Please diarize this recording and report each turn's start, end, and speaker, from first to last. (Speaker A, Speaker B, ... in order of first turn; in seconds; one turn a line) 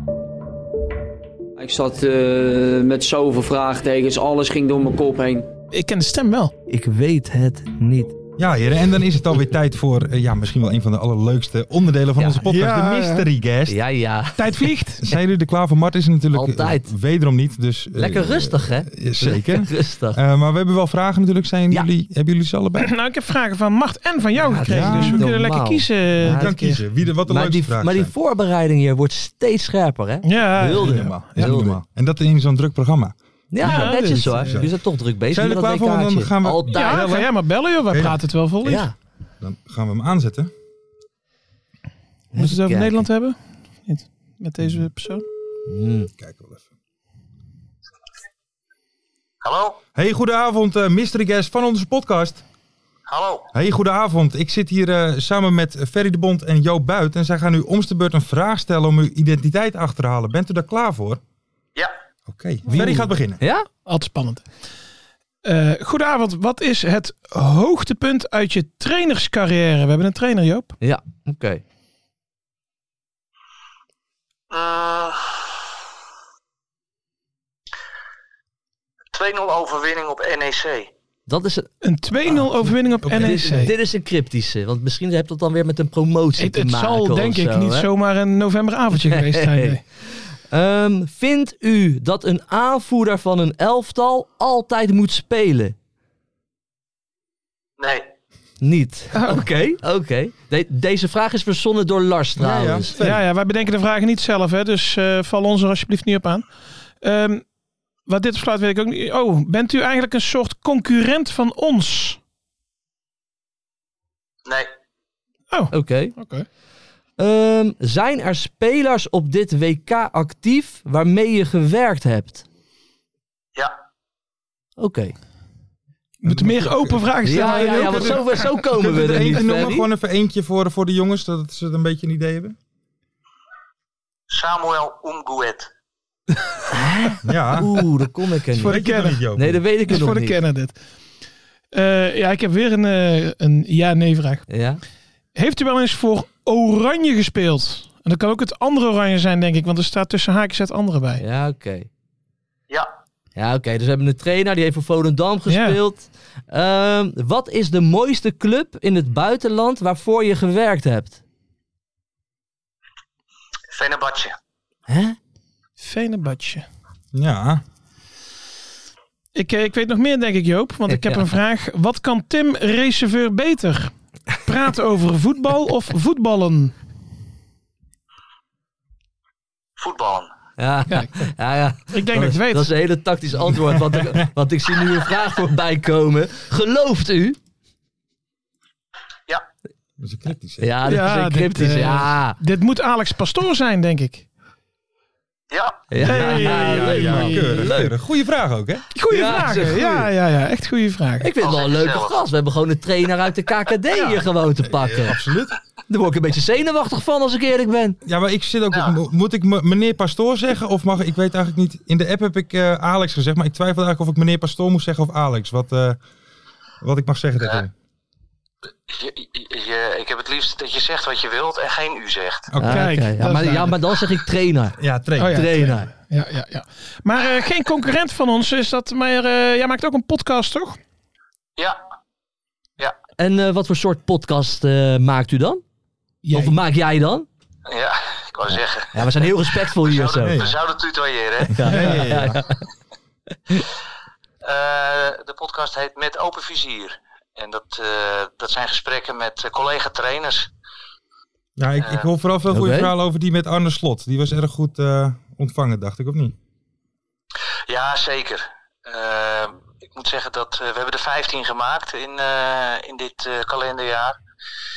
Speaker A: 1.6-5.5
Speaker B: 5.7-6.5
Speaker C: 6.7-8.2
Speaker D: 8.4-13.8
Speaker B: 12.4-13.3
Speaker C: 13.7-14.5
Speaker B: 14.4-15.0
Speaker D: 15.0-22.9
Speaker C: 16.3-16.9
Speaker C: 17.9-20.2
Speaker B: 22.8-26.8
Speaker C: 24.4-26.5
Speaker D: 24.7-25.2
Speaker D: 26.2-28.1
Speaker C: 27.2-31.8
Speaker B: 30.2-31.5
Speaker D: 30.7-37.3
Speaker C: 33.5-37.1
Speaker B: 33.6-34.6
Speaker B: 36.7-38.9
Speaker D: 37.9-38.2
Speaker C: 38.6-38.9
Speaker D: 39.4-40.5
Speaker C: 42.3-43.1
Speaker B: 42.4-45.2
Speaker C: 45.7-46.1
Speaker D: 46.2-46.6
Speaker E: 49.4-49.8
Speaker D: 49.9-52.4
Speaker E: 53.1-53.5
Speaker D: 53.5-61.2
Speaker D: 62.3-63.4
Speaker B: 62.7-63.1
Speaker C: 62.7-63.7
Speaker B: 63.9-64.5
Speaker B: 65.4-70.8
Speaker C: 70.8-71.6
Speaker E: 74.5-75.3
Speaker E: 79.1-80.9
Speaker C: 81.3-81.7
Speaker B: 81.8-83.7
Speaker D: 82.3-83.5
Speaker C: 83.1-87.9
Speaker B: 86.4-89.8
Speaker C: 88.9-89.8
Speaker C: 90.5-95.7
Speaker E: 97.8-98.1
Speaker C: 98.6-102.9
Speaker B: 99.1-99.4
Speaker D: 102.4-103.2
Speaker B: 103.0-106.4
Speaker B: 107.0-107.4
Speaker B: 108.1-112.2
Speaker E: 114.5-114.7
Speaker B: 115.5-116.5
Speaker C: 115.7-116.2
Speaker C: 117.2-122.4
Speaker C: 124.8-125.1
Speaker B: 126.2-128.5
Speaker D: 126.2-132.6
Speaker C: 127.2-129.9
Speaker E: 134.3-135.7
Speaker C: 136.7-138.8
Speaker D: 137.2-137.7
Speaker B: 138.5-139.2
Speaker D: 138.6-139.6
Speaker C: 139.3-140.4
Speaker B: 139.9-140.7
Speaker B: 141.7-144.4
Speaker C: 144.5-144.8
Speaker B: 145.3-151.2
Speaker C: 151.2-151.9
Speaker C: 153.3-161.2
Speaker B: 155.5-155.8
Speaker E: 163.7-164.3
Speaker C: 164.9-165.2
Speaker B: 165.8-166.7
Speaker D: 167.1-167.6
Speaker B: 169.3-176.7
Speaker C: 170.9-171.2
Speaker E: 179.8-180.3
Speaker C: 180.6-187.4
Speaker B: 180.9-181.2
Speaker B: 181.9-182.7
Speaker D: 183.4-184.1
Speaker D: 190.0-190.8
Speaker C: 190.6-192.4
Speaker B: 190.8-194.2
Speaker E: 195.5-195.8
Speaker C: 195.9-197.9
Speaker D: 196.0-198.8
Speaker B: 196.0-197.7
Speaker B: 198.9-201.3
Speaker C: 199.1-200.1
Speaker C: 201.2-205.2
Speaker E: 201.4-202.2
Speaker D: 204.7-205.5
Speaker C: 205.9-208.0
Speaker D: 208.0-216.0
Speaker D: 216.8-217.7
Speaker E: 218.9-222.5
Speaker D: 222.5-222.9
Speaker C: 222.6-225.9
Speaker B: 222.7-223.8
Speaker D: 224.8-225.5
Speaker B: 225.2-230.8
Speaker C: 233.2-235.6
Speaker B: 236.2-236.6
Speaker C: 236.3-237.3
Speaker E: 237.7-241.6
Speaker C: 238.9-240.4
Speaker D: 240.2-240.6
Speaker C: 241.5-242.6
Speaker D: 241.6-242.4
Speaker B: 241.7-242.1
Speaker E: 244.4-250.5
Speaker D: 251.6-256.3
Speaker E: 251.8-252.1
Speaker C: 252.5-252.9
Speaker E: 257.7-264.2